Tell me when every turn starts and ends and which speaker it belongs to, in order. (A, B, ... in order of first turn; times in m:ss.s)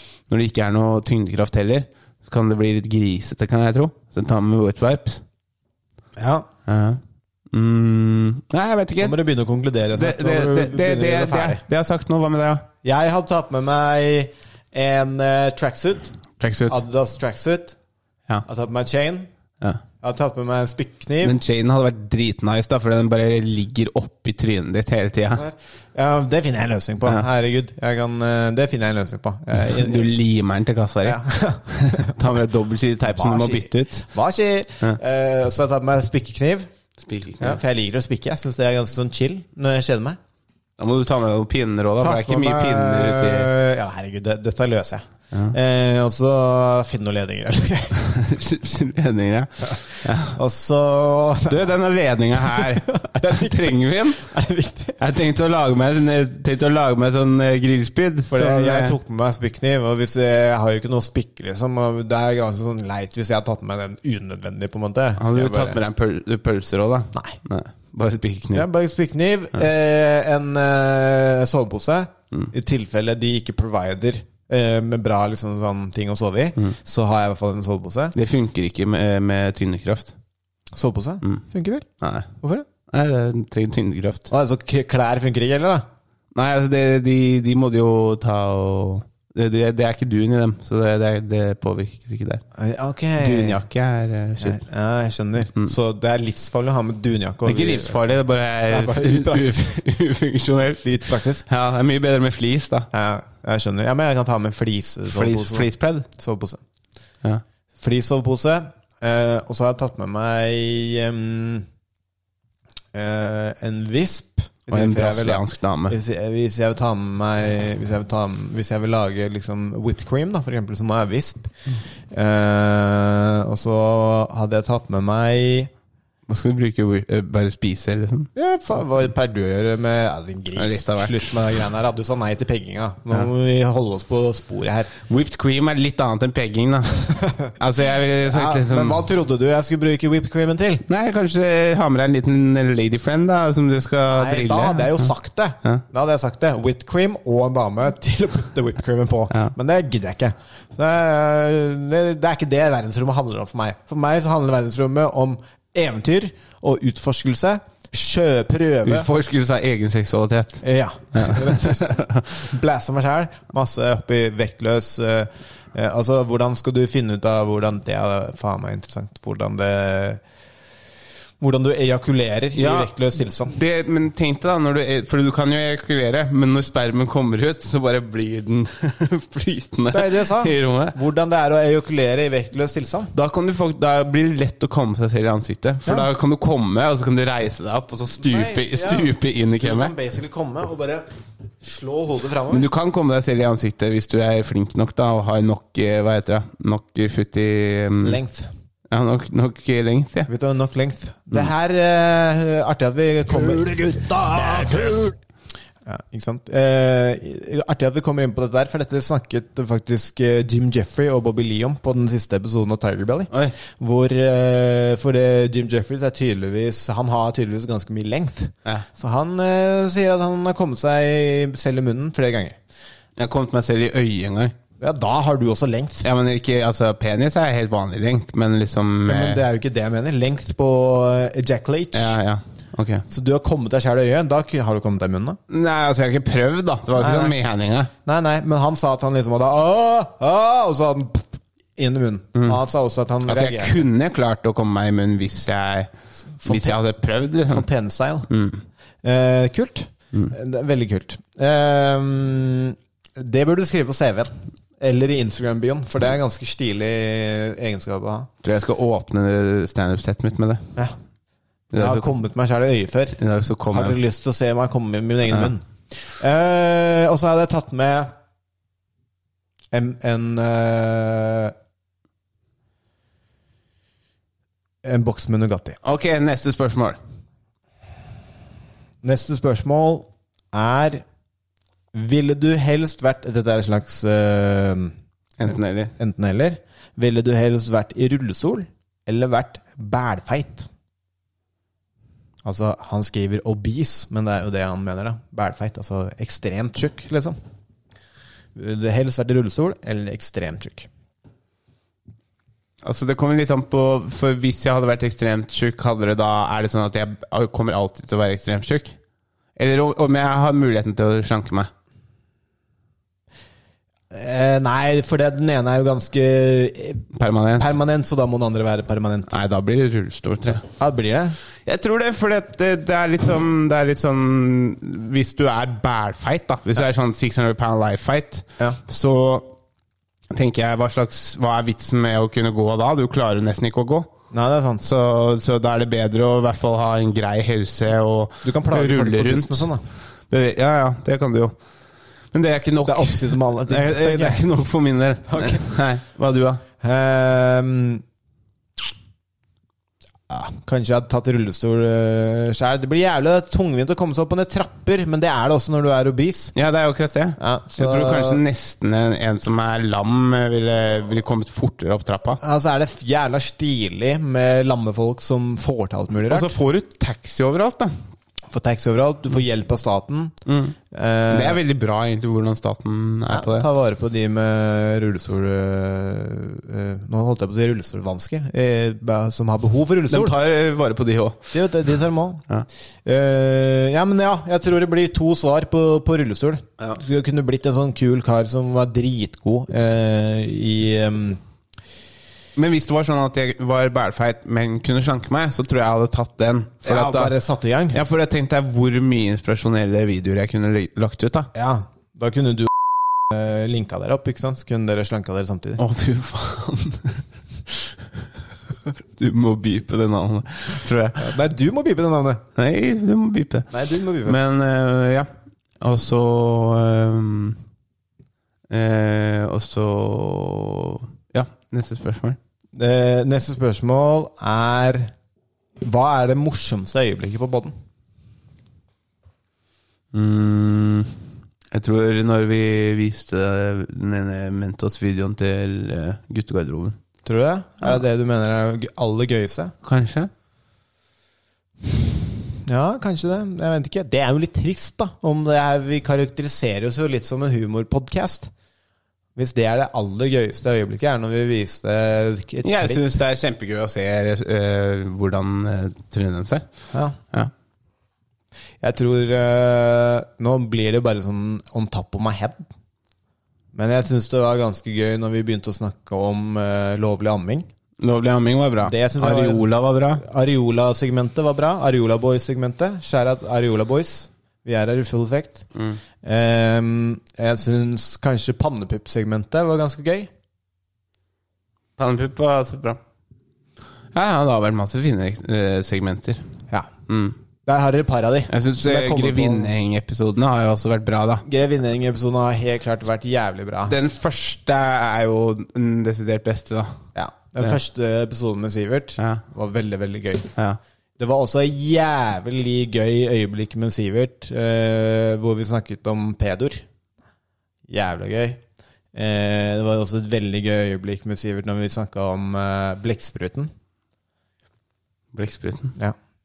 0:00.3-0:05.2 A
0:06.2-0:06.5 B
0:06.6-0:09.2 A
0:09.0-0:11.6 B
0:09.9-0:12.7 A
0:12.8-0:16.2 B
0:16.4-0:16.8 A
0:16.7-0:17.8 B
0:18.4-0:19.3 B
0:20.0-0:21.4 B
0:21.2-0:25.4 A
0:25.3-0:30.1 B
0:29.5-0:34.1 A
0:31.0-0:32.3 B
0:33.1-0:36.7 B
0:37.0-0:37.6 A
0:37.4-0:40.2 B
0:40.8-0:43.5 A
0:42.0-0:48.0 B
0:47.9-0:50.4 A
0:49.6-0:51.7 B
0:51.5-0:54.2 A
0:52.5-0:55.0 B
0:55.0-0:59.0 A
0:58.3-1:05.8 B
1:05.2-1:08.7 A
1:08.5-1:18.1 B
1:18.1-1:20.1 A
1:20.7-1:21.8 B
1:22.0-1:22.3 A
1:22.4-1:22.6 B
1:22.9-1:24.3 A
1:24.3-1:25.8 B
1:26.3-1:32.4 A
1:32.6-1:33.6 B
1:33.2-1:34.6 A
1:34.4-1:39.8 B
1:37.4-1:42.9 A
1:40.8-1:41.4 B
1:42.9-1:46.6 B
1:45.1-1:46.1 A
1:47.8-1:51.7 B
1:52.9-2:01.5 B
1:54.7-1:56.0 A
2:02.1-2:05.7 B
2:06.3-2:08.3 A
2:08.3-2:14.9 B
2:10.5-2:11.3 A
2:15.1-2:19.1 A
2:17.2-2:17.5 B
2:18.2-2:20.8 B
2:20.9-2:25.8 A
2:24.1-2:39.1 B
2:38.8-2:42.2 A
2:40.6-2:50.2 B
2:51.4-2:53.6 B
2:52.6-3:01.0 A
2:59.9-3:03.1 B
3:03.1-3:09.9 A
3:08.2-3:11.0 B
3:11.6-3:12.6 B
3:12.5-3:18.2 A
3:18.0-3:18.5 B
3:18.9-3:20.3 A
3:20.3-3:25.1 B
3:24.4-3:24.9 A
3:25.8-3:42.6 B
3:33.3-3:33.6 A
3:43.2-3:44.6 A
3:44.8-3:46.0 B
3:46.0-3:49.4 A
3:49.1-3:52.2 B
3:51.9-3:53.0 A
3:53.1-3:55.4 B
3:55.5-3:57.9 A
3:57.0-3:57.4 B
3:58.0-4:03.8 B
4:03.2-4:05.9 A
4:06.4-4:06.8 B
4:06.4-4:07.7 A
4:07.4-4:08.3 B
4:08.3-4:08.6 A
4:09.0-4:18.3 B
4:18.4-4:20.7 A
4:21.7-4:22.1 A
4:21.7-4:23.2 B
4:23.2-4:24.0 A
4:23.7-4:28.1 B
4:29.7-4:31.5 B
4:34.8-4:35.8 B
4:35.8-4:37.0 A
4:39.0-4:41.0 B
4:41.9-4:44.9 B
4:45.4-4:45.9 A
4:46.0-4:50.7 B
4:52.4-4:57.4 B
4:58.5-5:00.9 B
5:02.8-5:09.0 A
5:09.6-5:11.7 A
5:14.1-5:17.0 B
5:17.1-5:17.8 A
5:17.6-5:19.3 B
5:19.3-5:20.6 A
5:20.7-5:21.4 B
5:21.6-5:29.5 A
5:30.3-5:34.1 A
5:34.3-5:34.8 B
5:34.8-5:39.7 A
5:38.4-5:39.8 B
5:40.3-5:41.6 A
5:42.3-5:46.6 A
5:42.8-5:44.4 B
5:45.3-5:45.7 B
5:46.8-5:48.0 B
5:50.3-5:56.5 B
5:56.5-6:02.4 A
5:57.4-5:58.4 B
6:02.4-6:06.6 B
6:06.2-6:08.0 A
6:08.5-6:10.3 B
6:10.4-6:10.8 A
6:10.9-6:11.6 B
6:11.3-6:13.7 A
6:13.3-6:20.3 B
6:20.1-6:21.6 A
6:21.5-6:22.4 B
6:23.0-6:31.4 B
6:32.6-6:37.4 A
6:36.8-6:38.0 B
6:37.9-6:41.5 A
6:41.5-6:42.7 B
6:43.3-6:45.8 B
6:45.8-6:47.8 A
6:49.1-6:51.3 A
6:51.2-6:52.4 B
6:52.6-6:57.6 A
6:53.7-6:54.4 B
6:58.7-7:02.4 A
7:02.7-7:05.1 B
7:05.8-7:07.7 B
7:10.1-7:17.0 A
7:17.2-7:19.7 B
7:19.8-7:20.3 A
7:22.6-7:28.5 B
7:29.4-7:33.0 B
7:32.6-7:36.6 A
7:36.9-7:37.2 B
7:38.8-7:42.7 B
7:43.7-7:47.7 B
7:48.0-7:50.2 A
7:48.8-7:55.6 B
7:55.7-7:56.0 A
7:56.2-8:00.3 B
8:02.0-8:03.0 A
8:04.1-8:06.4 A
8:07.1-8:07.4 A
8:07.6-8:09.7 B
8:08.5-8:11.4 A
8:11.4-8:14.0 B
8:13.9-8:17.0 A
8:17.1-8:20.5 B
8:19.2-8:19.4 A
8:21.2-8:26.8 B
8:27.9-8:28.6 B
8:29.1-8:33.7 B
8:35.3-8:35.9 A